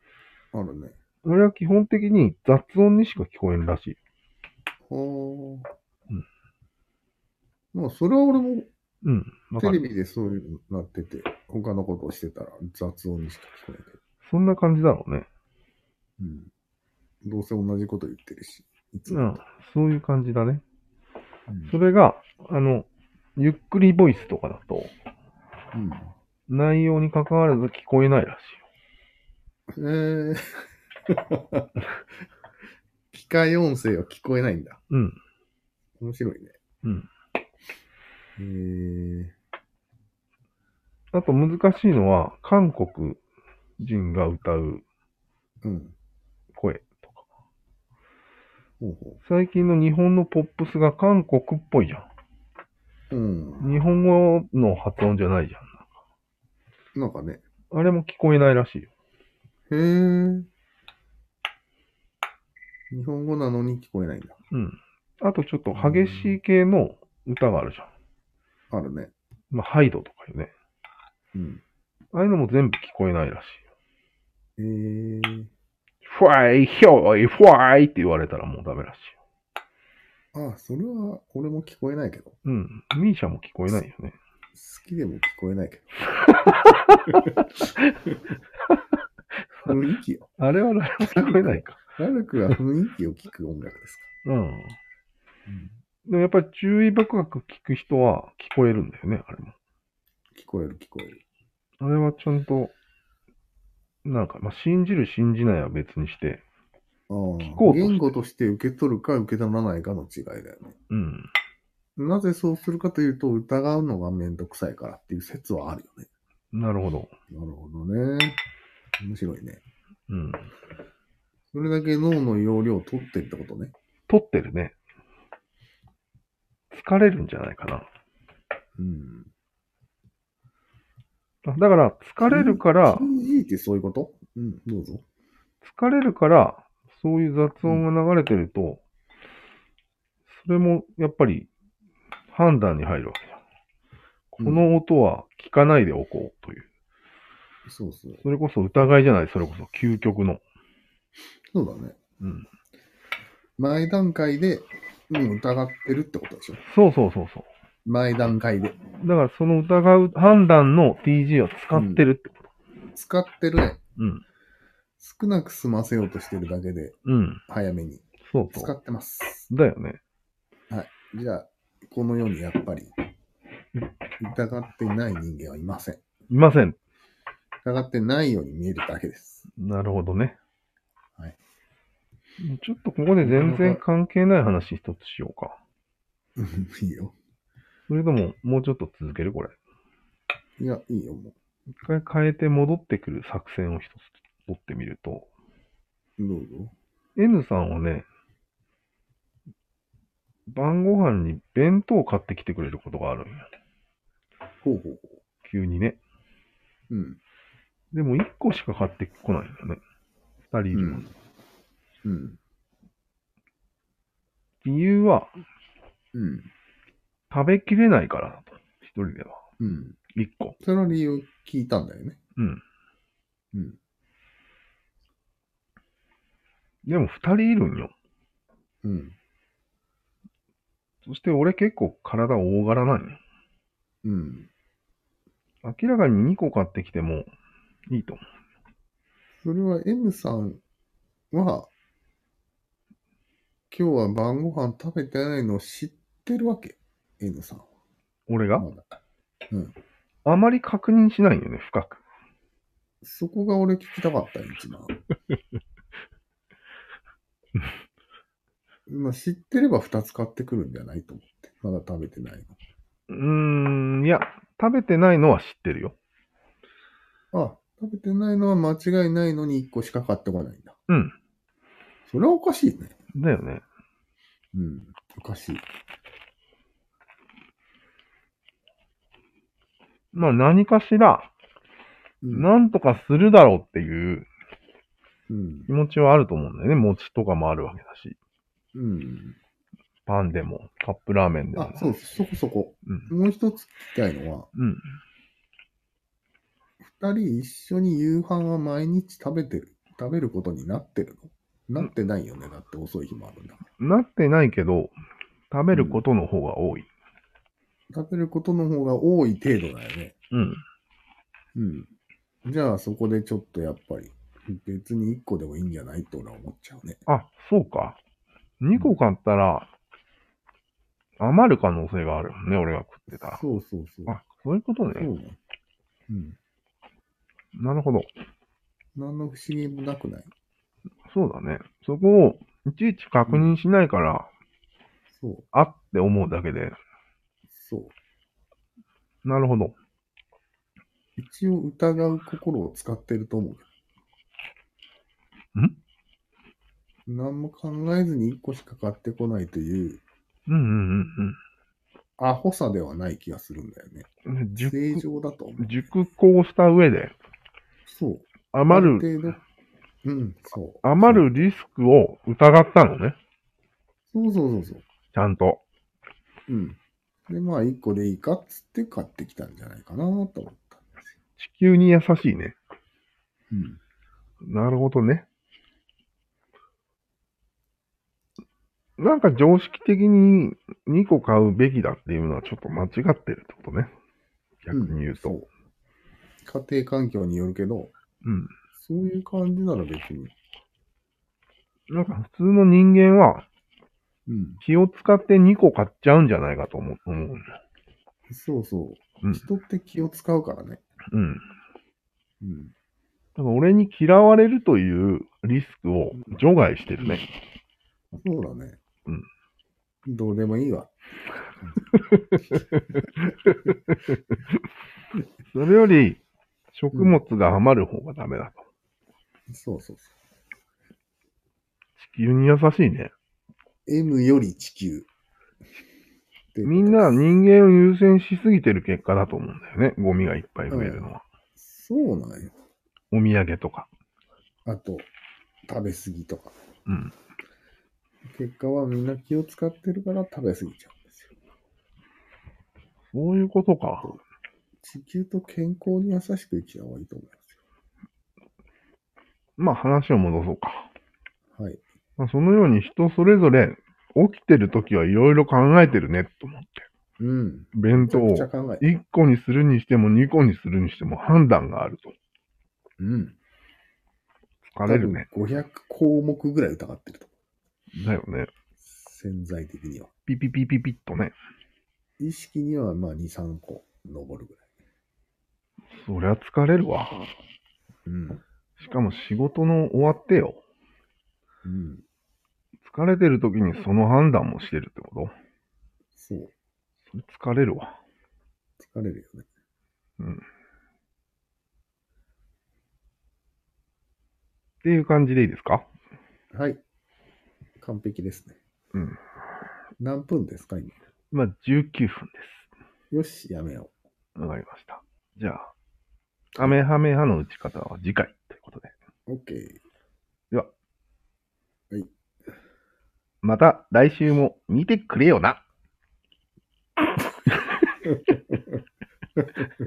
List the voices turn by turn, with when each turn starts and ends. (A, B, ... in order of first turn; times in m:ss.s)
0:00.5-0:01.0 A
0:01.2-0:04.0 B
0:04.9-0:05.7 A
0:07.7-0:08.7 A
0:09.0-0:09.8 B
0:09.6-0:14.0 A
0:14.2-0:15.3 B
0:16.2-0:16.5 A
0:17.2-0:19.4 A
0:19.1-0:20.6 B
0:21.5-0:21.8 A
0:21.7-0:24.9 B
0:25.7-0:26.1 A
0:26.5-0:28.6 B
0:29.7-0:31.9 A
0:33.1-0:34.8 A
0:34.9-0:35.2 B
0:36.0-0:36.6 A
0:36.8-0:37.1 B
0:38.4-0:39.4 A
0:41.1-0:43.2 B
0:43.8-0:44.8 B
0:45.6-0:45.9 A
0:46.5-0:47.2 B
0:48.8-0:49.2 A
0:49.2-0:52.1 B
0:53.1-0:53.8 A
0:53.6-0:55.8 B
0:57.0-0:57.4 A
0:57.7-0:58.9 B
0:59.7-1:00.5 A
1:02.9-1:04.4 A
1:04.5-1:07.9 B
1:05.7-1:06.4 A
1:08.7-1:09.1 A
1:09.5-1:10.5 B
1:11.3-1:11.6 A
1:12.1-1:13.6 B
1:14.6-1:15.5 A
1:16.0-1:19.2 B
1:20.3-1:22.4 A
1:22.4-1:24.2 B
1:24.5-1:26.3 A
1:26.4-1:27.4 B
1:29.6-1:30.3 A
1:30.4-1:31.8 B
1:31.0-1:34.1 A
1:34.2-1:34.8 B
1:35.5-1:35.7 A
1:36.1-1:39.5 B
1:40.3-1:41.2 A
1:41.8-1:42.7 B
1:44.0-1:46.4 B
1:47.1-1:50.8 A
1:47.4-1:48.1 B
1:50.9-1:51.3 B
1:52.0-1:56.1 A
1:56.5-1:57.1 B
1:57.3-1:58.4 A
1:59.0-1:59.6 A
2:00.1-2:00.5 B
2:01.5-2:03.7 A
2:04.1-2:04.8 B
2:06.7-2:07.9 B
2:08.8-2:09.3 A
2:11.4-2:13.1 B
2:12.2-2:15.0 A
2:15.6-2:18.8 B
2:20.3-2:21.5 B
2:22.3-2:23.4 B
2:24.3-2:26.7 B
2:24.4-2:24.7 A
2:27.7-2:28.2 A
2:28.2-2:30.4 B
2:31.5-2:32.0 A
2:32.2-2:32.5 B
2:33.6-2:36.6 A
2:36.6-2:37.5 B
2:37.8-2:38.8 A
2:39.0-2:42.5 B
2:41.7-2:42.0 A
2:42.9-2:43.8 A
2:44.0-2:44.2 B
2:45.0-2:47.0 A
2:47.1-2:47.4 B
2:47.5-2:49.5 A
2:48.3-2:48.7 B
2:49.5-2:50.0 B
2:50.7-2:53.0 A
2:54.2-2:56.0 A
2:56.3-2:56.8 B
2:57.6-2:59.5 A
2:59.6-3:00.4 B
3:02.4-3:05.6 B
3:03.2-3:03.8 A
3:06.4-3:07.2 A
3:07.9-3:09.6 B
3:10.6-3:11.4 A
3:11.8-3:15.3 B
3:16.2-3:16.7 A
3:17.2-3:18.1 B
3:20.5-3:23.5 B
3:24.6-3:25.2 A
3:25.4-3:26.0 B
3:26.9-3:27.2 A
3:27.9-3:29.8 B
3:30.5-3:31.1 B
3:30.7-3:31.1 A
3:32.0-3:32.4 A
3:34.6-3:35.3 B
3:36.1-3:36.5 A
3:37.3-3:39.4 B
3:39.6-3:40.0 A
3:40.1-3:40.6 B
3:40.6-3:42.2 A
3:42.4-3:42.6 B
3:43.5-3:43.8 A
3:46.8-3:47.9 B
3:48.8-3:49.2 A
3:51.1-3:53.2 B
3:54.0-3:54.5 A
3:55.6-3:57.3 B
3:57.9-3:58.2 B
3:59.4-4:00.6 A
4:01.3-4:01.7 A
4:03.7-4:07.7 A
4:08.3-4:08.6 B
4:08.6-4:09.0 A
4:10.2-4:12.0 B
4:13.0-4:15.0 A
4:18.9-4:22.6 A
4:23.1-4:26.0 B
4:27.3-4:30.8 A
4:30.9-4:31.2 B
4:32.1-4:32.9 A
4:33.1-4:33.6 B
4:34.5-4:35.6 A
4:40.1-4:41.3 B
4:42.2-4:42.5 A
4:42.3-4:44.3 B
4:45.3-4:45.7 A
4:45.7-4:48.2 B
4:48.7-4:49.4 A
4:50.1-4:51.9 B
4:51.6-4:54.5 A
4:54.6-4:54.8 B
4:56.8-5:03.6 A
5:03.8-5:04.9 B
5:05.5-5:06.9 B
5:05.7-5:06.0 A
5:07.9-5:10.2 A
5:10.3-5:10.6 B
5:11.6-5:11.9 A
5:12.4-5:17.0 A
5:17.1-5:18.0 B
5:18.6-5:19.7 B
5:21.2-5:23.4 B
5:23.2-5:24.2 A
5:24.1-5:25.1 B
5:24.9-5:25.4 A
5:26.1-5:26.4 A
5:27.6-5:28.1 B
5:29.0-5:30.3 A
5:31.1-5:34.3 B
5:33.3-5:33.6 A
5:35.1-5:35.5 A
5:35.5-5:36.8 B
5:37.5-5:37.9 A
5:39.2-5:39.8 B
5:41.2-5:43.7 A
5:47.1-5:50.0 A
5:50.5-5:51.4 B
5:52.2-5:55.9 A
5:54.3-5:55.0 B
5:55.6-5:57.1 B
5:57.9-5:59.4 A
5:58.5-5:59.1 B
6:00.0-6:01.5 A
6:00.8-6:03.2 B
6:04.1-6:04.8 A
6:05.1-6:05.6 B
6:06.5-6:11.2 A
6:11.4-6:12.6 B
6:13.5-6:13.8 A
6:14.4-6:15.3 B
6:19.0-6:23.9 B
6:24.6-6:25.4 B
6:24.7-6:25.5 A
6:26.4-6:27.9 A
6:28.2-6:28.5 B
6:28.8-6:30.3 A
6:31.9-6:33.5 B
6:34.3-6:34.6 A
6:34.6-6:37.6 B
6:38.3-6:40.8 A
6:41.1-6:41.4 B
6:42.4-6:42.7 A
6:43.4-6:47.3 B
6:46.2-6:46.4 A
6:48.1-6:48.8 A
6:50.1-6:52.0 A
6:52.0-6:54.4 B
6:55.5-6:56.2 B
6:56.7-6:58.6 B
6:56.9-6:57.2 A
6:59.5-7:00.1 A
7:02.0-7:03.1 B
7:03.9-7:05.1 A
7:06.5-7:07.2 A
7:06.7-7:11.2 B
7:10.7-7:12.5 A
7:13.1-7:13.9 B
7:14.6-7:15.1 A
7:15.7-7:16.6 A
7:16.9-7:17.1 B
7:18.3-7:21.3 A
7:23.1-7:24.2 B
7:24.8-7:27.6 A
7:29.6-7:30.9 B
7:31.6-7:31.8 A
7:32.2-7:36.9 B
7:37.2-7:39.0 A
7:37.7-7:42.1 B
7:43.0-7:43.4 A
7:44.7-7:45.3 B
7:44.9-7:47.3 A
7:47.9-7:48.5 B
7:48.8-7:50.1 A
7:50.3-7:51.3 B
7:52.2-7:54.6 A
7:55.9-7:57.3 B
7:58.1-7:58.4 A
7:58.8-8:00.6 B
8:01.6-8:02.0 A
8:02.8-8:05.3 B
8:06.2-8:06.5 A
8:07.1-8:08.0 B
8:08.8-8:09.5 A
8:14.8-8:15.9 B
8:16.5-8:16.8 A
8:17.8-8:18.6 A
8:18.9-8:19.2 B
8:20.0-8:21.0 A
8:21.3-8:22.7 B
8:23.1-8:23.9 A
8:24.4-8:25.7 B
8:26.6-8:28.9 B
8:29.3-8:29.8 A
8:33.4-8:35.6 B
8:38.0-8:38.7 A
8:39.4-8:39.7 A